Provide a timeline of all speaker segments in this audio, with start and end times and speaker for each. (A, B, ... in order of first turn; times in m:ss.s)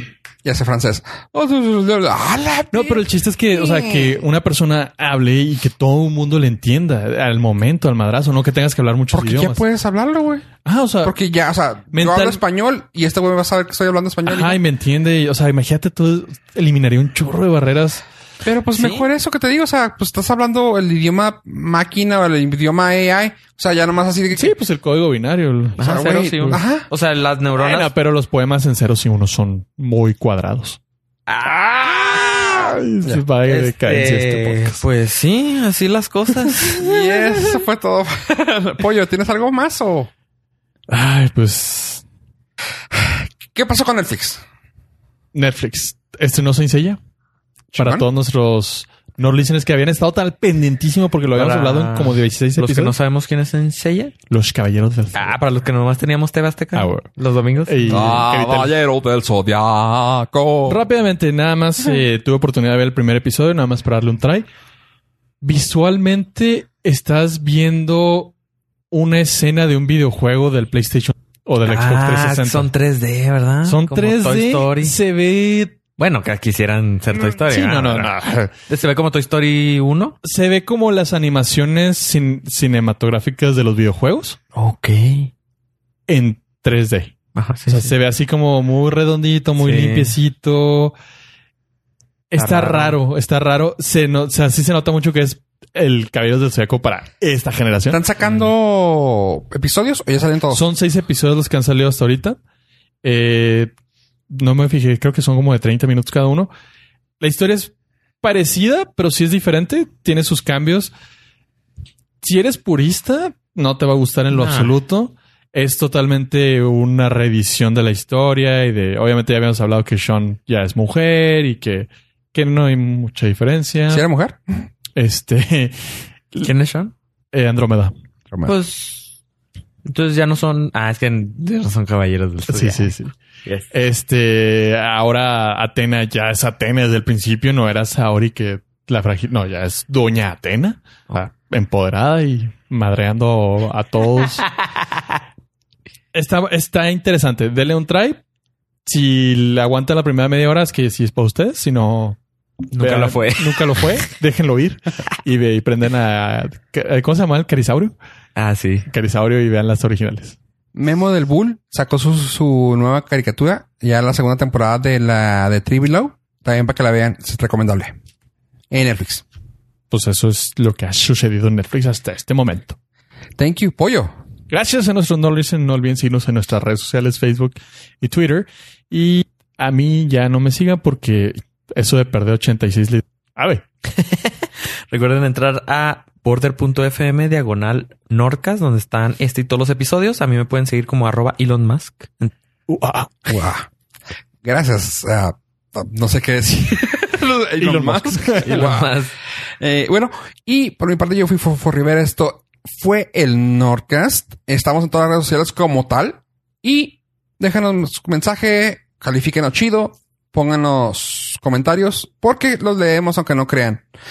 0:00.4-0:04.2 A
0:02.7-0:09.6 B
0:09.1-0:10.5 A
0:10.6-0:11.1 B
0:11.0-0:14.6 A
0:11.9-0:12.4 B
0:14.3-0:18.0 B
0:18.4-0:24.6 A
0:18.8-0:19.1 C
0:24.3-0:25.8 B
0:25.8-0:26.9 A
0:25.8-0:27.9 C
0:27.6-0:30.8 B
0:31.3-0:32.8 C
0:32.6-0:34.8 B
0:33.4-0:37.4 C
0:36.8-0:40.1 A
0:40.9-0:42.0 B
0:42.9-0:44.4 A
0:45.3-0:47.0 B
0:47.7-0:48.1 A
0:47.8-0:53.0 B
0:51.3-0:54.1 C
0:54.3-0:55.4 B
0:55.1-0:58.2 C
0:56.8-0:57.1 B
0:57.6-0:58.7 B
0:57.9-1:00.8 A
1:00.7-1:04.5 B
1:05.4-1:08.3 B
1:08.9-1:12.7 B
1:11.6-1:15.0 C
1:13.6-1:15.8 B
1:16.0-1:20.2 C
1:17.1-1:18.5 B
1:20.2-1:24.4 B
1:24.6-1:25.3 C
1:26.1-1:27.1 B
1:27.4-1:27.9 C
1:27.7-1:31.0 B
1:29.6-1:30.2 C
1:32.3-1:38.0 B
1:32.4-1:33.0 C
1:37.9-1:40.6 A
1:38.2-1:38.5 C
1:40.5-1:42.4 B
1:43.0-1:43.7 B
1:44.3-1:46.5 B
1:47.2-1:50.9 B
1:52.2-2:04.0 B
1:54.3-1:54.7 C
2:03.9-2:04.4 A
2:05.0-2:05.8 B
2:06.4-2:06.9 C
2:07.3-2:07.9 B
2:08.4-2:09.1 C
2:09.9-2:12.9 C
2:12.5-2:13.1 B
2:13.4-2:13.7 C
2:13.7-2:24.5 B
2:24.7-2:25.0 C
2:26.1-2:28.2 B
2:28.8-2:32.2 B
2:32.7-2:34.0 C
2:32.8-2:38.0 B
2:38.4-2:38.9 C
2:38.9-2:40.4 B
2:40.8-2:48.0 A
2:48.7-2:49.2 A
2:49.9-2:52.8 B
2:53.4-2:54.1 A
2:54.5-3:03.6 B
3:03.9-3:12.3 C
3:12.7-3:13.4 B
3:13.3-3:13.7 A
3:14.4-3:18.9 A
3:17.6-3:18.9 B
3:18.4-3:19.1 C
3:19.6-3:33.8 A